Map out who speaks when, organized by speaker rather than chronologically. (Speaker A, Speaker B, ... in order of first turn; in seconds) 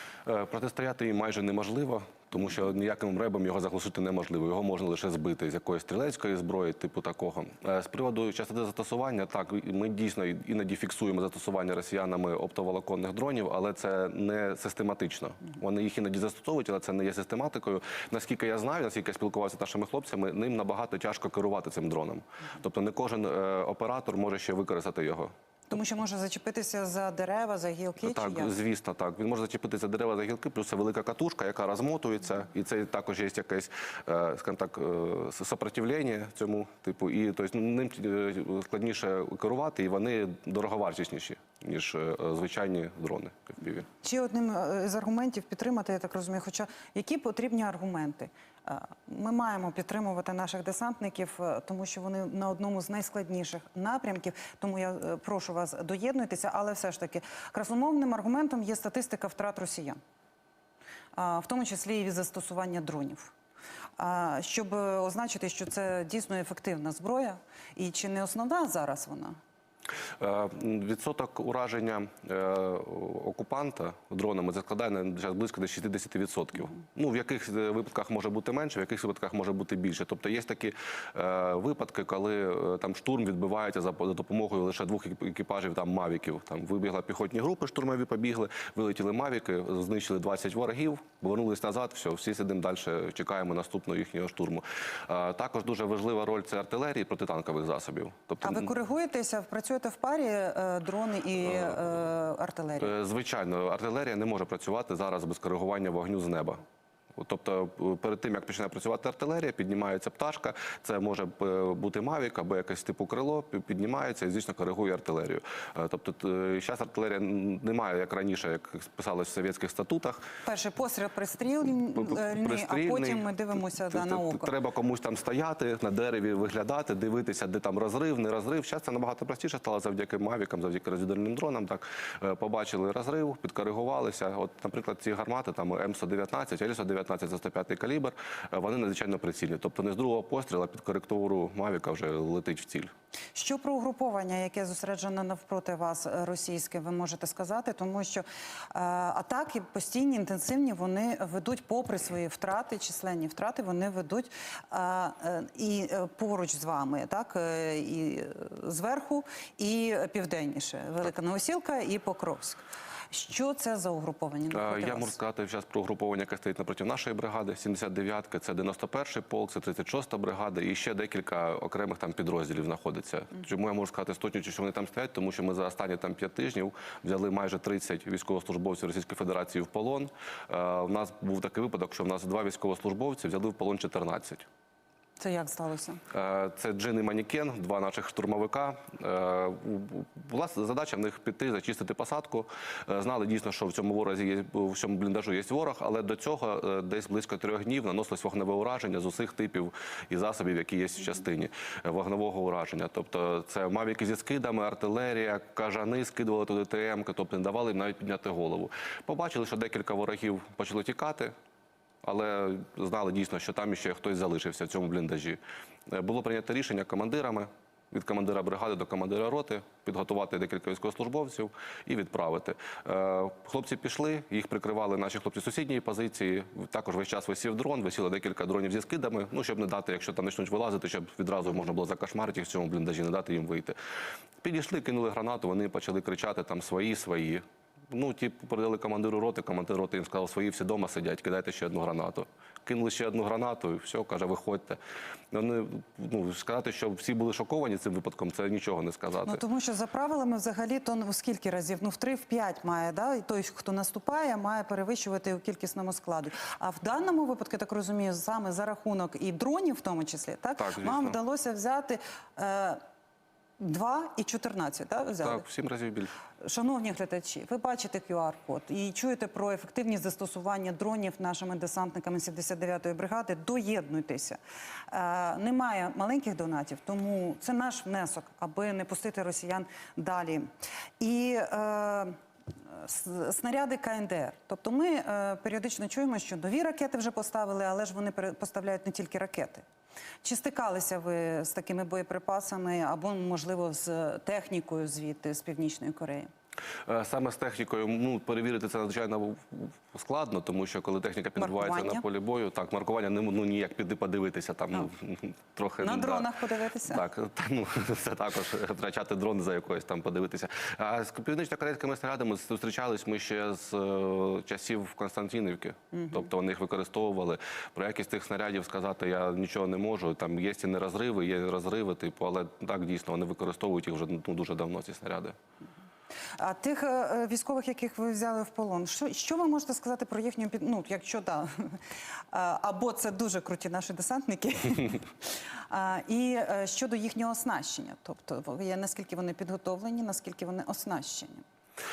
Speaker A: 0.3-25.3, 28.0-43.9, 70.2-98.7, 102.8-106.6, 107.2-120.2, 122.0-142.9, 164.5-184.5, 186.1-211.3, 212.0-233.8, 234.4-244.8, 245.3-249.4, 260.6-261.2, 265.2-266.1, 296.9-306.3, 306.9-325.4
Speaker B: 25.7-28.5, 44.0-60.0, 61.1-63.3, 64.0-69.4, 98.4-102.9, 120.5-124.5, 143.3-165.2, 185.2-186.0, 249.2-262.8, 263.6-265.4, 266.4-274.4, 274.9-280.5, 281.0-282.2, 282.7-289.6, 290.2-296.3, 301.4-302.0, 305.8-307.0, 326.4-331.8, 332.3-341.4